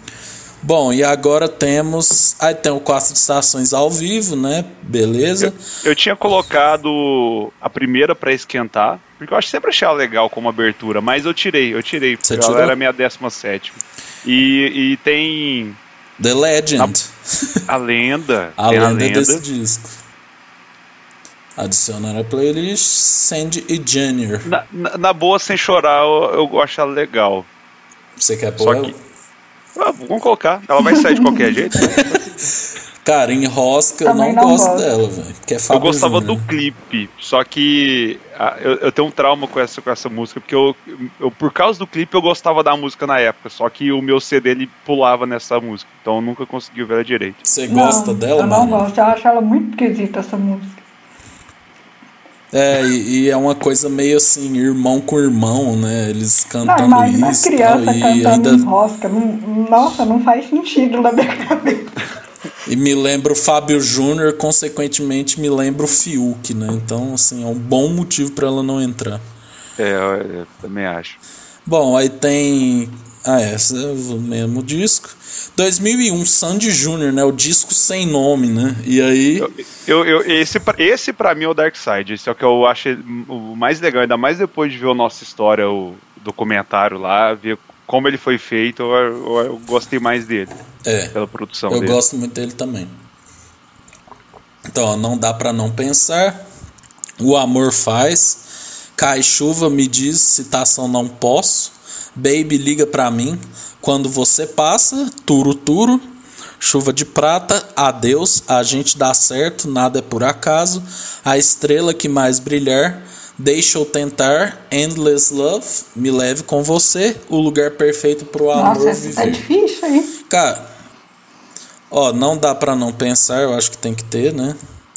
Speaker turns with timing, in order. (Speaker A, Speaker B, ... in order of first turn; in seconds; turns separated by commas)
Speaker A: 0.6-5.6, Speaker B: 5.4-15.8, Speaker A: 12.2-12.8, Speaker A: 16.2-17.6, Speaker B: 17.7-19.4, Speaker A: 18.6-19.9, Speaker A: 21.6-24.5, Speaker B: 24.5-27.5, Speaker A: 28.2-28.9, Speaker B: 28.6-28.9, Speaker B: 29.8-32.4, Speaker C: 30.9-31.4, Speaker A: 31.8-32.2, Speaker A: 33.0-36.5, Speaker C: 34.0-34.9, Speaker B: 35.7-47.4, Speaker A: 47.5-48.9, Speaker C: 47.7-50.8, Speaker A: 52.5-58.7, Speaker C: 56.6-62.0, Speaker A: 62.7-69.2, Speaker B: 69.8-71.2, Speaker A: 71.7-79.5, Speaker B: 79.4-90.5, Speaker A: 90.8-91.1, Speaker B: 91.1-92.0, Speaker A: 91.7-93.0, Speaker A: 94.7-96.4, Speaker A: 97.2-106.0, Speaker A: 106.6-119.4, Speaker C: 118.5-120.1, Speaker A: 120.3-120.7, Speaker A: 121.9-124.6